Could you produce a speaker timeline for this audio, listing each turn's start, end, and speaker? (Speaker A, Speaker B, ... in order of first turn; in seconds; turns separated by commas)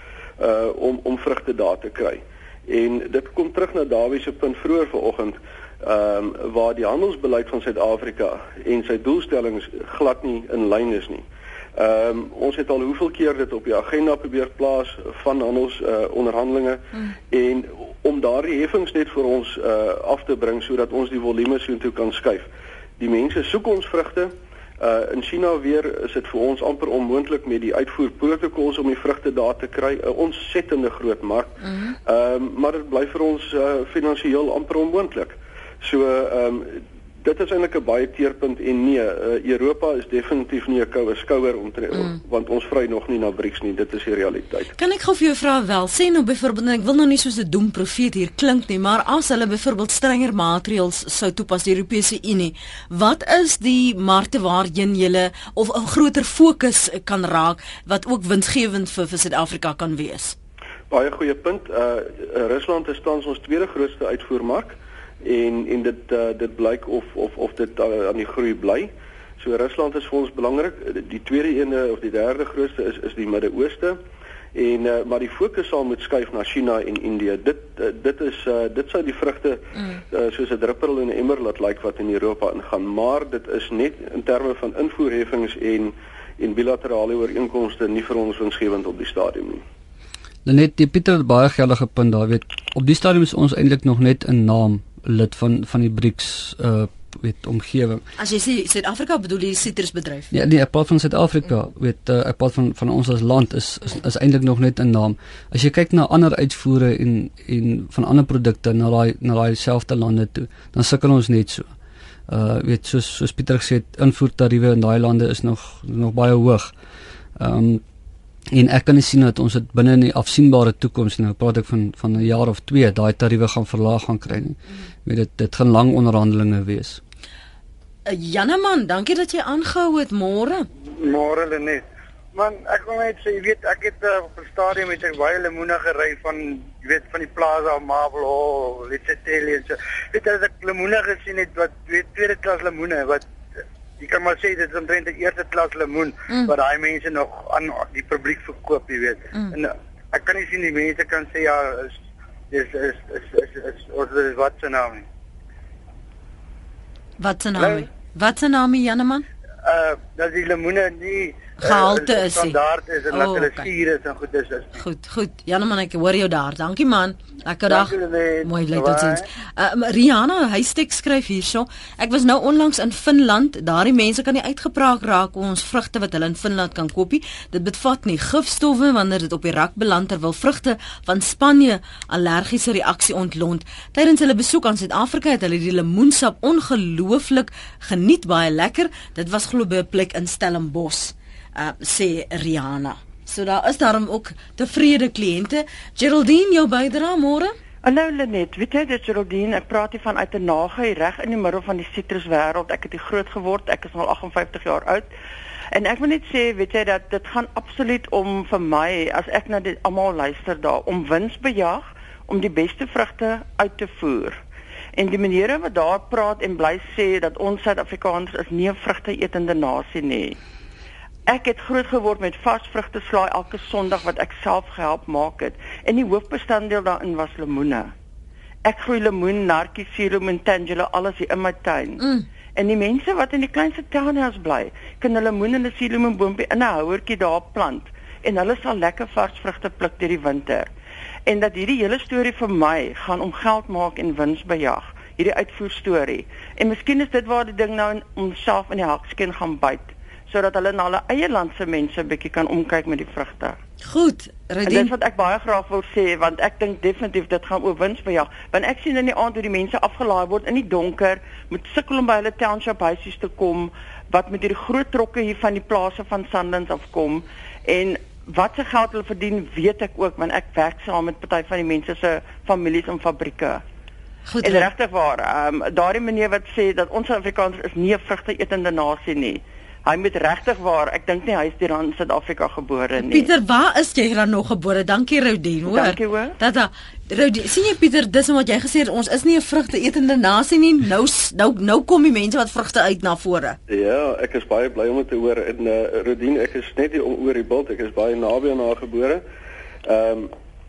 Speaker A: 0.4-11.2, Speaker A: 11.8-22.5, Speaker A: 23.0-44.7, Speaker B: 31.6-31.9, Speaker B: 44.8-60.4, Speaker A: 60.9-74.0, Speaker A: 74.5-89.6, Speaker C: 90.4-98.0, Speaker B: 98.2-100.3, Speaker C: 100.3-111.7, Speaker C: 112.3-116.7, Speaker C: 117.4-117.8, Speaker C: 118.5-127.0, Speaker B: 128.1-130.7, Speaker D: 131.0-143.2, Speaker D: 144.0-152.0, Speaker D: 152.5-155.1, Speaker B: 157.2-159.2, Speaker D: 157.6-157.9, Speaker D: 159.6-164.8, Speaker B: 161.6-162.6, Speaker B: 163.1-163.7, Speaker B: 164.8-197.5, Speaker D: 167.7-169.2, Speaker E: 197.8-205.1, Speaker E: 205.7-214.4, Speaker E: 214.9-220.4, Speaker E: 221.3-227.9, Speaker E: 228.6-240.7, Speaker E: 241.2-253.6, Speaker B: 253.8-254.9, Speaker E: 254.7-273.6, Speaker B: 274.2-274.7, Speaker E: 274.4-283.3, Speaker B: 283.0-293.6, Speaker E: 285.7-286.4, Speaker A: 293.7-299.2, Speaker A: 299.8-300.3